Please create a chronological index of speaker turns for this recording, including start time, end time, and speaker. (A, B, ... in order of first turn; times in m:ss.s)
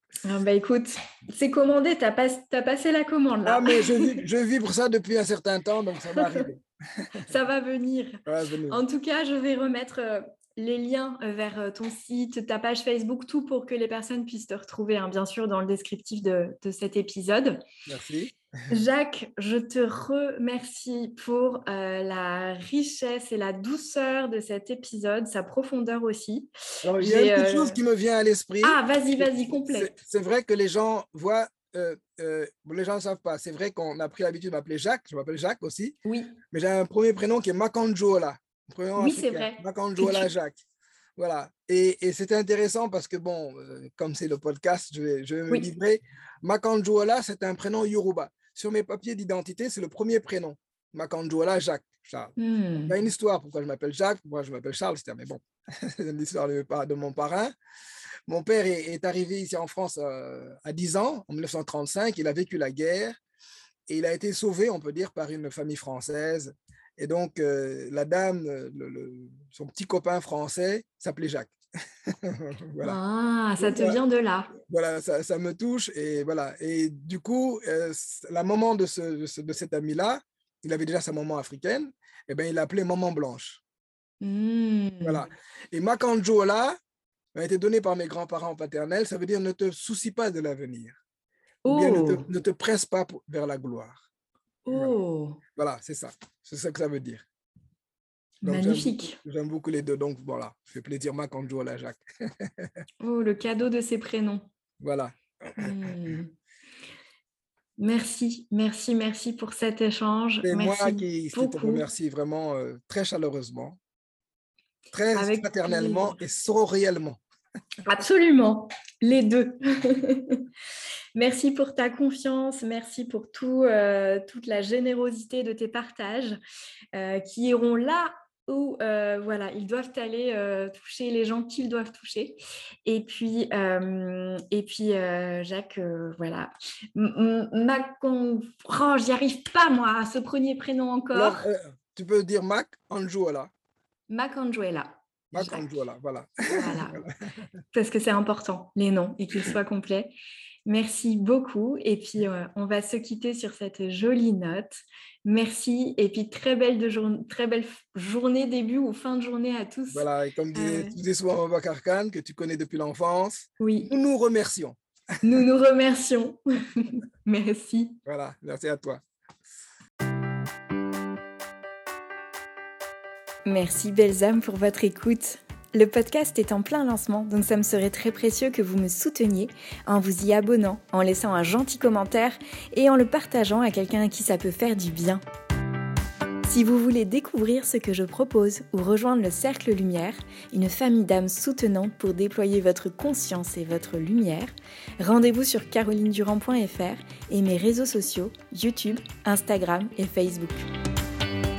0:00.2-0:04.2 A
0:03.4-0:07.3 B
0:06.1-0:06.4 A
0:07.2-0:17.6 A
0:08.2-0:08.8 B
0:17.8-0:18.8 B
0:18.7-0:27.8 A
0:26.8-0:35.9 B
0:28.6-0:29.9 A
0:36.0-0:36.4 A
0:36.5-0:40.6 B
0:38.9-0:40.3 A
0:41.2-0:52.4 B
0:52.4-0:52.9 A
0:52.9-0:57.5 B
0:58.3-1:03.2 B
1:03.9-1:11.5 B
1:12.1-1:13.0 B
1:12.8-1:14.5 A
1:13.6-1:14.0 B
1:14.6-1:23.6 B
1:24.2-1:25.2 A
1:25.0-1:26.8 B
1:27.3-1:31.0 B
1:31.6-1:32.3 A
1:31.7-1:34.0 B
1:34.6-1:35.4 A
1:35.6-1:37.2 B
1:38.4-1:39.2 A
1:38.4-1:42.7 B
1:43.0-1:44.4 A
1:44.8-1:46.1 B
1:45.6-1:46.3 A
1:47.8-1:51.8 A
1:50.4-1:53.8 B
1:54.9-1:57.2 B
1:55.1-1:56.1 A
1:57.8-2:00.4 A
2:01.1-2:06.4 A
2:06.9-2:21.4 A
2:21.1-2:23.5 B
2:24.1-2:25.6 A
2:25.3-2:27.2 B
2:26.5-2:27.0 A
2:27.7-2:30.1 A
2:30.6-2:41.0 A
2:39.9-2:44.8 B
2:43.6-2:43.9 A
2:45.2-2:48.0 A
2:48.0-2:49.0 B
2:53.4-3:05.2 A
3:06.4-3:20.6 A